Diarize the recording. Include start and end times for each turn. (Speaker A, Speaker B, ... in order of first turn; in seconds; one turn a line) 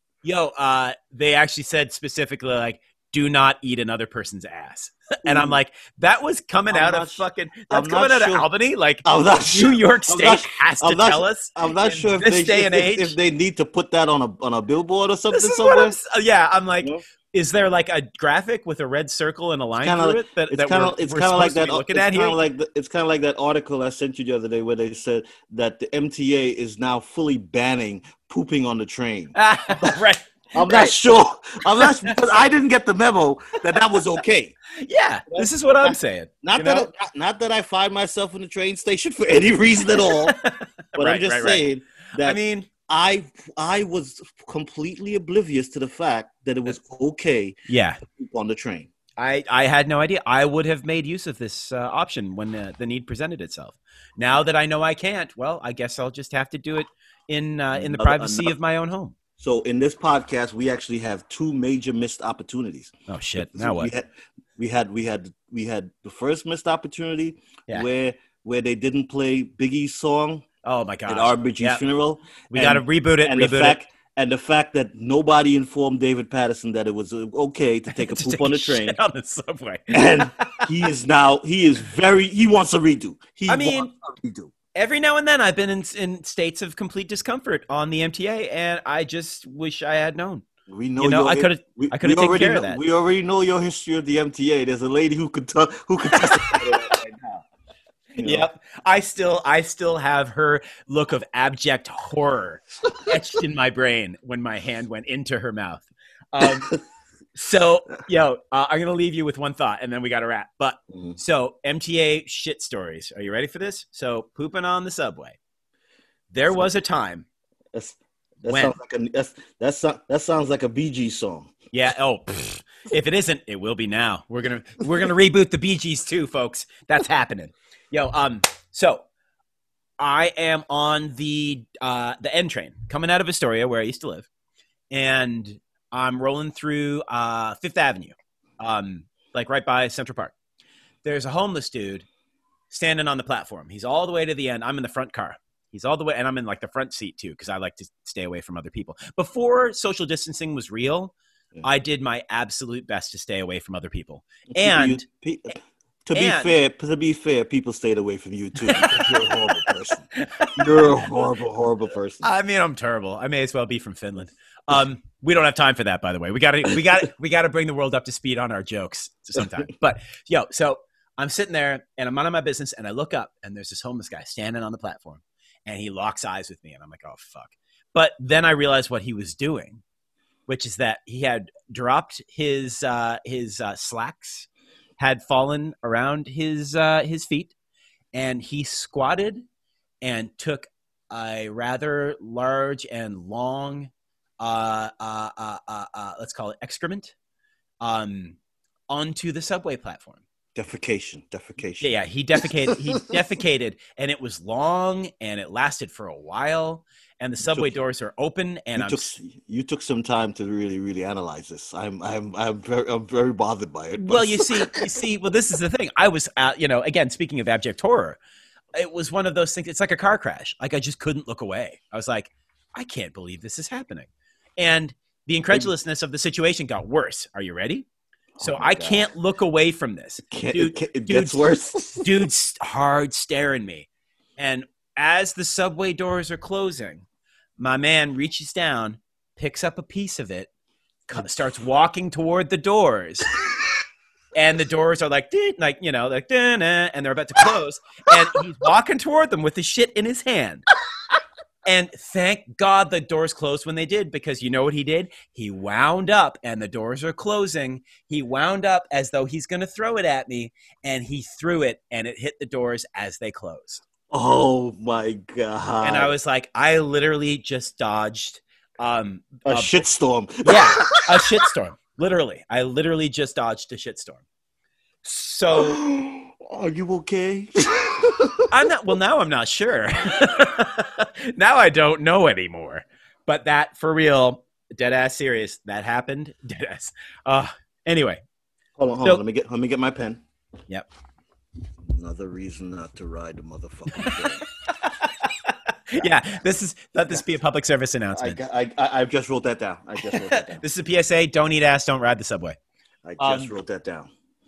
Speaker A: 0.2-13.2
Speaker B: 5.2-5.6
Speaker B: 6.7-8.5
Speaker B: 9.0-16.0
Speaker A: 15.3-22.4
Speaker B: 19.8-30.0
Speaker A: 29.3-30.9
Speaker B: 30.5-34.5
Speaker A: 31.7-32.2
Speaker A: 34.7-36.9
Speaker B: 35.3-40.3
Speaker A: 40.0-41.6
Speaker B: 41.0-48.9
Speaker A: 42.2-42.7
Speaker A: 47.7-48.0
Speaker A: 49.2-59.1
Speaker B: 57.7-58.5
Speaker B: 59.4-70.5
Speaker A: 63.1-63.9
Speaker A: 70.6-71.8
Speaker B: 71.1-79.0
Speaker A: 72.5-73.8
Speaker A: 77.9-80.7
Speaker B: 79.9-84.5
Speaker A: 83.5-83.9
Speaker A: 84.7-90.5
Speaker B: 90.7-97.4
Speaker A: 91.0-92.8
Speaker A: 96.1-96.9
Speaker A: 98.2-106.7
Speaker B: 98.2-98.5
Speaker A: 107.3-115.4
Speaker A: 116.3-117.2
Speaker B: 117.7-121.5
Speaker A: 118.4-118.8
Speaker A: 121.7-129.0
Speaker A: 130.0-134.3
Speaker A: 134.9-140.3
Speaker A: 141.0-142.1
Speaker A: 142.7-155.0
Speaker B: 154.6-162.3
Speaker A: 156.1-156.5
Speaker A: 158.6-161.2
Speaker A: 162.2-179.8
Speaker A: 180.5-187.5
Speaker A: 188.1-189.4
Speaker A: 190.0-197.1
Speaker A: 197.8-198.4
Speaker A: 198.9-200.2
Speaker B: 200.5-202.4
Speaker A: 201.8-209.1
Speaker B: 207.4-207.7
Speaker B: 208.8-214.9
Speaker A: 214.0-218.2
Speaker A: 218.7-227.8
Speaker B: 228.4-229.1
Speaker A: 228.4-231.5
Speaker B: 230.3-232.3
Speaker A: 232.0-237.0
Speaker A: 237.6-240.5
Speaker A: 241.1-243.3
Speaker A: 244.3-250.6
Speaker A: 251.6-263.8
Speaker B: 264.1-266.1
Speaker A: 265.8-269.9
Speaker B: 269.4-271.4
Speaker A: 270.4-274.2
Speaker A: 275.0-275.8
Speaker B: 275.5-278.5
Speaker A: 278.5-288.2
Speaker B: 288.8-290.2
Speaker B: 291.9-294.4
Speaker A: 293.9-298.4
Speaker B: 298.1-300.6
Speaker A: 300.0-302.6
Speaker B: 303.0-304.1
Speaker A: 303.2-303.5